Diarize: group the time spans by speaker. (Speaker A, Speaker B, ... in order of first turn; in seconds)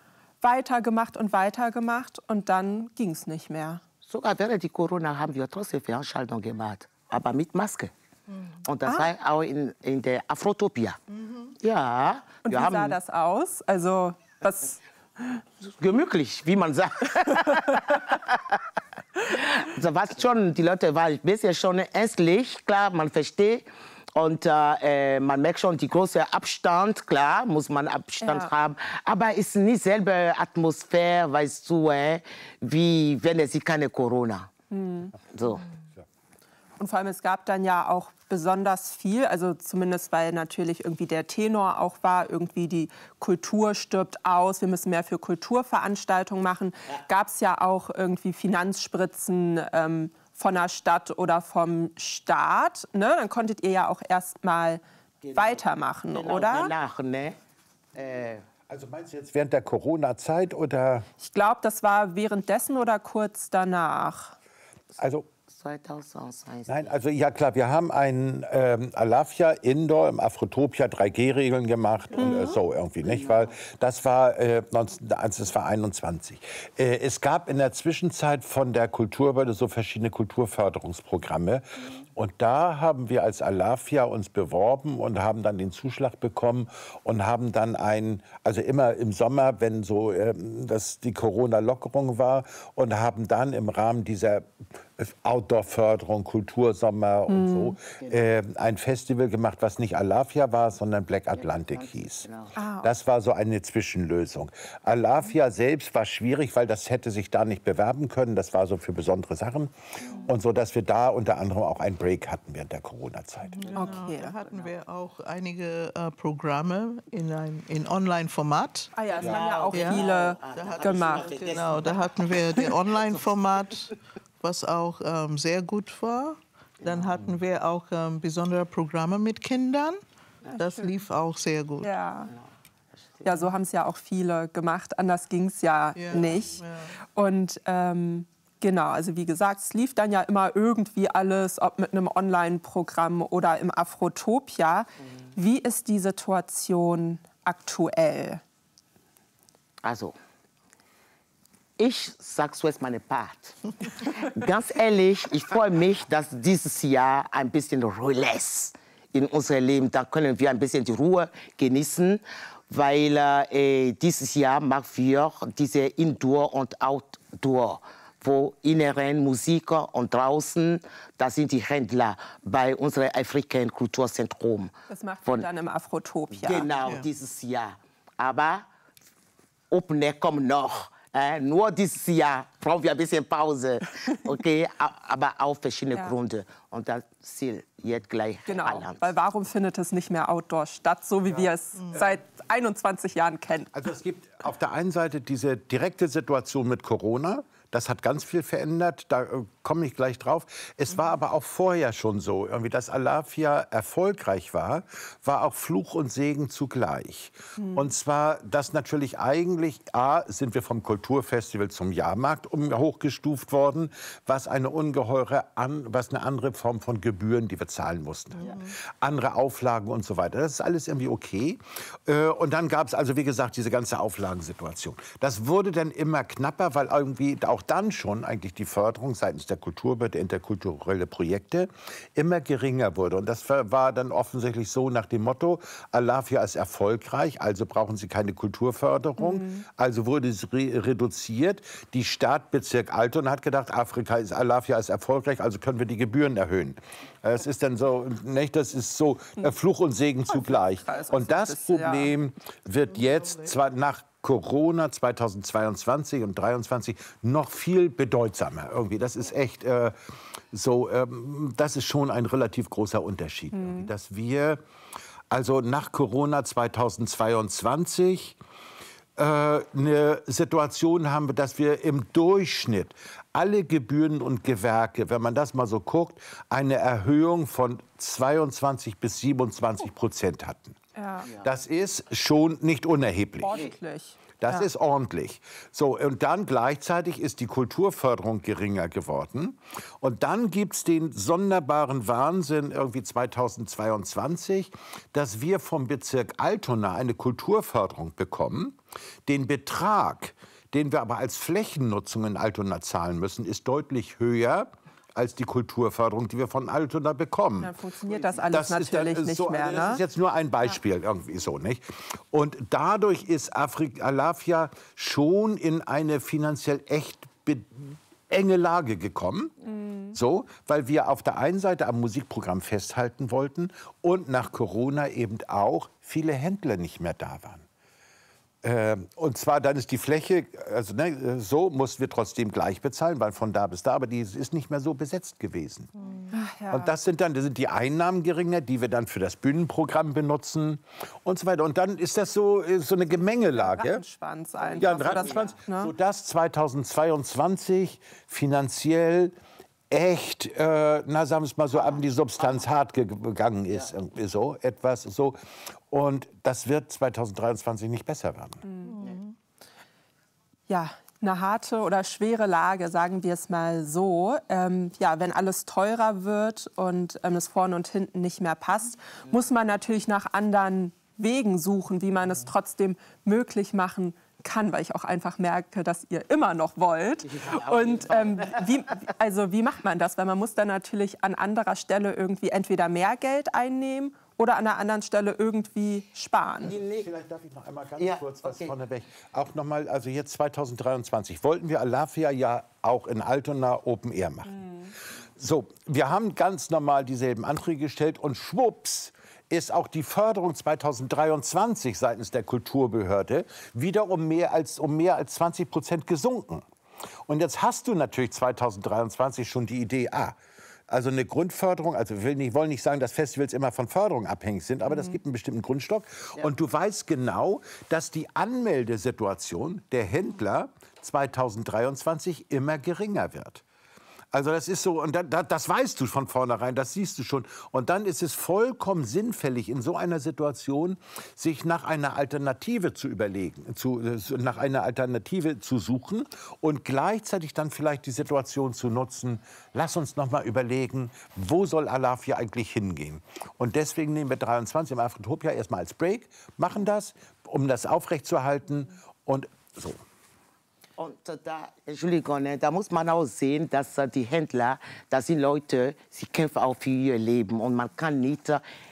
Speaker A: 0.4-3.8, 12.4-14.8, 17.3-17.8, 28.2-28.5, 34.7-35.1, 36.8-54.8, 55.4-56.7, 61.2-64.3, 72.2-72.6, 97.3-97.8, 102.5-102.9, 113.7-114.3, 118.9-121.3, 130.6-130.9, 131.8-132.3, 133.2-136.6, 137.1-148.4, 174.9-176.7, 188.5-193.7, 207.6-207.9, 239.2-239.6, 250.3-252.1, 263.5-263.9, 280.9-281.3, 283.4-284.7, 307.6-310.0, 319.6-320.1, 336.3-336.9, 343.6-345.9, 358.6-358.9, 360.7-386.8, 394.4-394.9, 414.9-415.1
Speaker B: 4.0-7.9, 8.6-11.0, 11.6-13.0, 15.6-18.6, 19.3-34.5, 35.3-35.6, 55.2-55.6, 56.1-57.4, 58.0-58.4, 65.5-66.9, 73.0-73.5, 101.3-102.5, 119.2-122.2, 126.8-127.1, 149.8-150.2, 151.8-174.7, 176.4-178.6, 179.7-189.1, 351.7-352.6, 377.2-378.7, 386.6-387.1, 388.0-388.7, 451.0-458.6
Speaker C: 11.1-11.5, 113.5-118.9, 119.7-130.0, 130.6-131.9, 135.9-136.9, 218.4-218.7, 252.9-253.5, 336.0-336.3, 358.8-359.3
Speaker D: 58.7-61.0, 65.0-65.3, 66.7-102.3, 102.8-109.7, 110.2-113.7, 193.7-259.9, 260.5-264.6, 265.3-268.4, 269.1-280.8, 281.4-283.6, 284.4-319.5, 320.1-327.6, 328.6-335.9, 336.7-344.0, 344.8-349.3, 349.9-355.4, 355.9-358.6, 387.0-394.7, 395.4-406.6, 407.3-410.4, 410.9-423.6, 424.3-450.0